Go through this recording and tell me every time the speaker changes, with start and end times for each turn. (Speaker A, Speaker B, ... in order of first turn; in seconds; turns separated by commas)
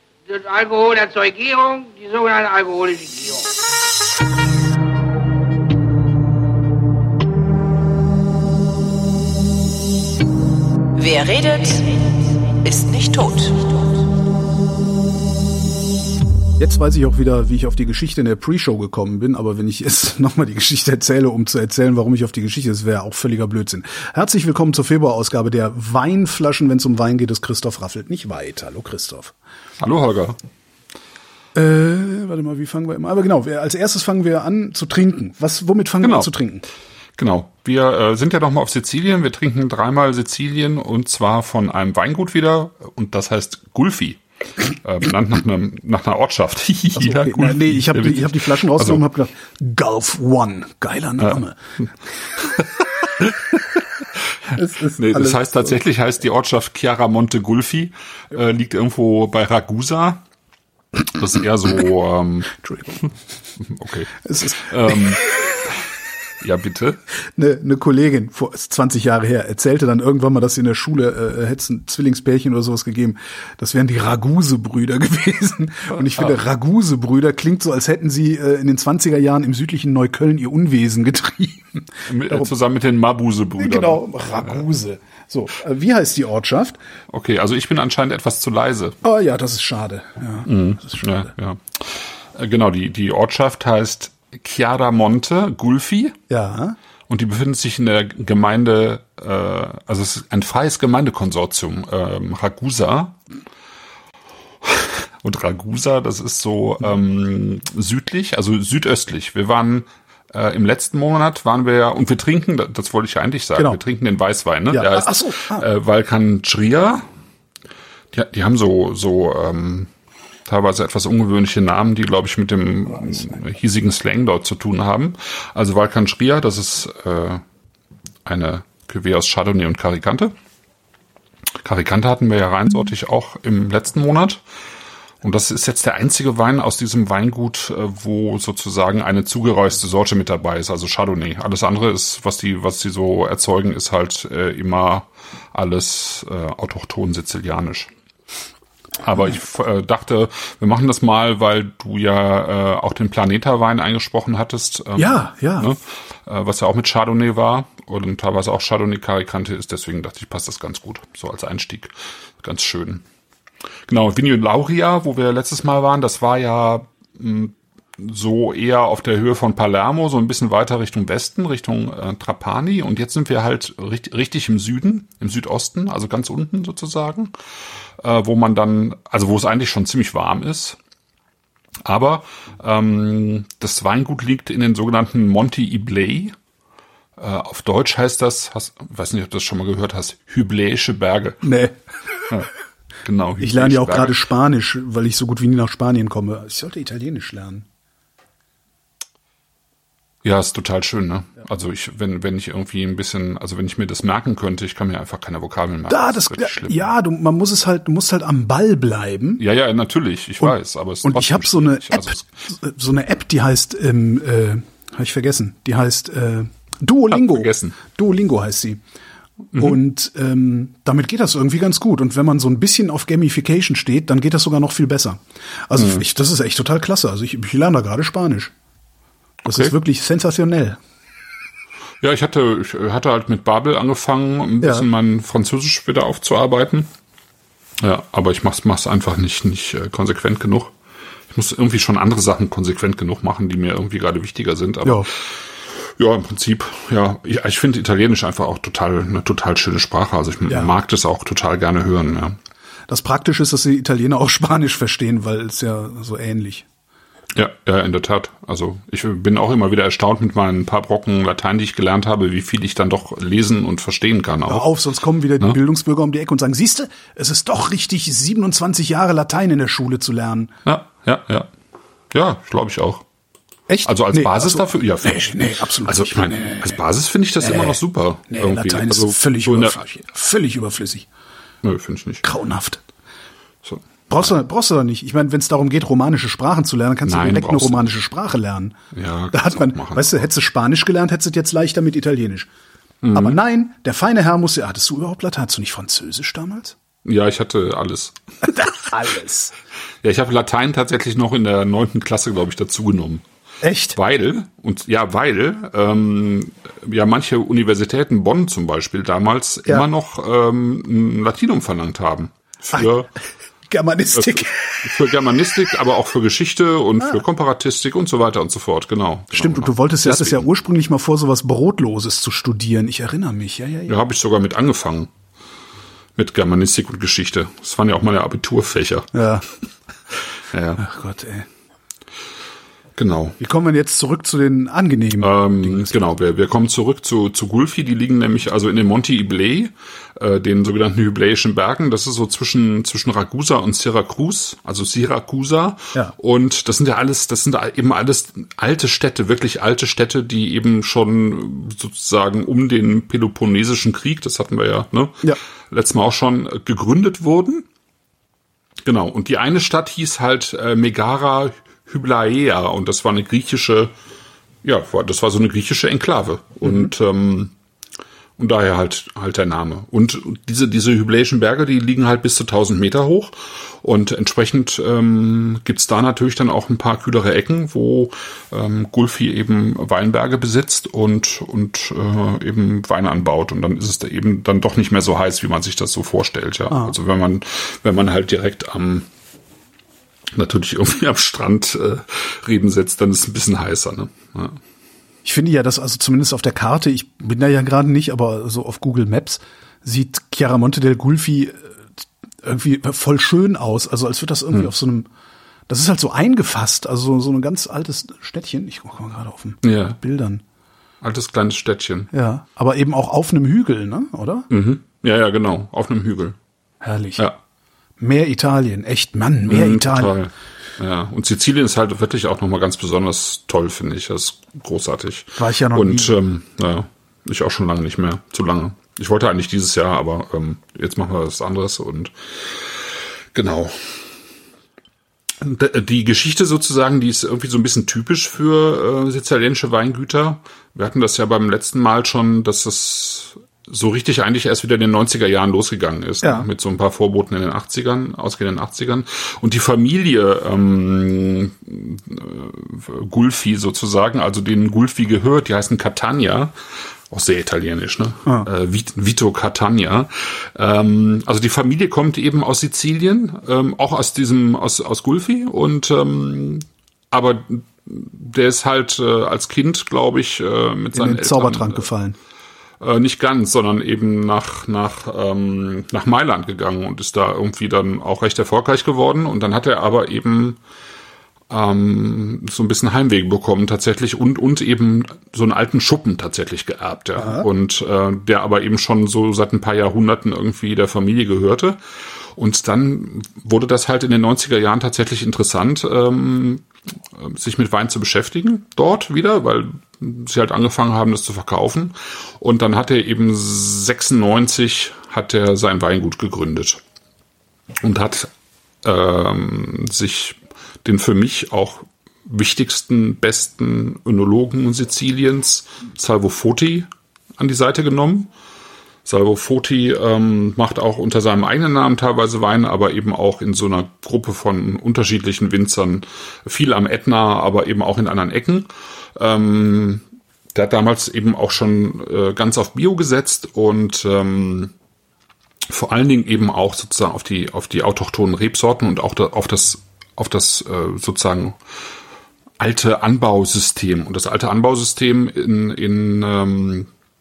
Speaker A: 0.3-3.5, Speaker B: 10.9-12.1, Speaker B: 12.6-13.8, Speaker C: 16.6-29.3, Speaker D: 29.8-30.4, Speaker C: 31.5-36.6, Speaker D: 36.0-36.3, Speaker D: 37.2-49.0, Speaker C: 47.0-51.6, Speaker D: 53.2-53.5, Speaker D: 54.5-60.2, Speaker C: 54.5-55.4, Speaker D: 61.1-63.1, Speaker D: 63.6-65.2, Speaker C: 64.2-65.0, Speaker D: 66.4-67.0, Speaker C: 67.3-82.5, Speaker D: 76.0-76.3, Speaker D: 82.1-84.6, Speaker C: 83.6-86.8, Speaker D: 87.1-89.0, Speaker C: 89.0-91.1, Speaker D: 90.5-96.2, Speaker C: 96.3-96.8, Speaker D: 97.1-103.2, Speaker D: 104.6-117.1, Speaker C: 114.7-115.6, Speaker D: 118.1-119.9, Speaker D: 120.4-127.4, Speaker D: 128.2-130.3, Speaker D: 131.6-134.4, Speaker D: 135.2-147.9, Speaker D: 149.0-163.0, Speaker C: 154.9-155.7, Speaker D: 163.9-177.3, Speaker D: 178.0-180.8, Speaker D: 181.8-186.3, Speaker D: 187.2-191.4, Speaker C: 191.4-191.8, Speaker D: 193.0-194.2, Speaker C: 193.4-197.7, Speaker D: 200.2-206.8, Speaker C: 205.9-209.4, Speaker D: 209.4-212.3, Speaker C: 211.0-218.8, Speaker D: 217.1-217.7, Speaker C: 219.6-228.5, Speaker D: 225.7-226.0, Speaker C: 229.4-230.8, Speaker D: 232.0-236.9, Speaker D: 237.8-240.7, Speaker D: 241.3-252.4, Speaker C: 250.5-250.7, Speaker C: 252.9-256.6, Speaker D: 257.3-264.7, Speaker C: 264.5-270.5, Speaker D: 270.6-271.5, Speaker D: 272.1-273.0, Speaker C: 273.7-276.7, Speaker D: 273.9-279.8, Speaker C: 277.4-277.8, Speaker C: 278.3-281.1, Speaker D: 281.6-282.2, Speaker C: 282.2-282.8, Speaker D: 283.6-284.3, Speaker C: 284.1-288.8, Speaker D: 287.0-287.9, Speaker D: 288.9-290.1, Speaker C: 289.3-292.5, Speaker D: 293.0-293.4, Speaker C: 293.1-296.8, Speaker D: 297.0-298.5, Speaker C: 298.4-299.5, Speaker D: 300.0-303.2, Speaker C: 303.6-304.0, Speaker D: 303.9-313.1, Speaker C: 313.7-314.9, Speaker D: 314.1-320.4, Speaker C: 319.3-323.9, Speaker D: 323.9-325.1, Speaker D: 326.1-329.1, Speaker C: 329.1-329.4, Speaker D: 330.5-330.8, Speaker C: 330.8-331.5, Speaker D: 332.9-333.4, Speaker C: 333.4-335.9, Speaker D: 335.2-357.6, Speaker D: 358.8-363.9, Speaker D: 364.6-367.5, Speaker D: 368.4-389.1, Speaker C: 386.7-386.9, Speaker D: 390.3-394.6, Speaker C: 395.2-401.7, Speaker C: 402.4-405.1, Speaker C: 405.7-410.4, Speaker D: 409.6-410.0, Speaker D: 411.0-412.1, Speaker C: 412.1-414.5, Speaker D: 414.5-416.4, Speaker C: 416.8-417.3, Speaker C: 418.0-420.1, Speaker D: 419.5-434.1, Speaker C: 425.4-426.2, Speaker D: 435.4-456.6, Speaker C: 446.2-446.5, Speaker D: 457.1-471.9, Speaker C: 470.9-472.1, Speaker D: 472.8-480.6, Speaker D: 481.5-506.8, Speaker C: 487.2-487.5, Speaker D: 507.8-508.3, Speaker D: 508.8-518.3, Speaker D: 519.0-534.7, Speaker D: 535.7-541.6, Speaker D: 542.6-546.9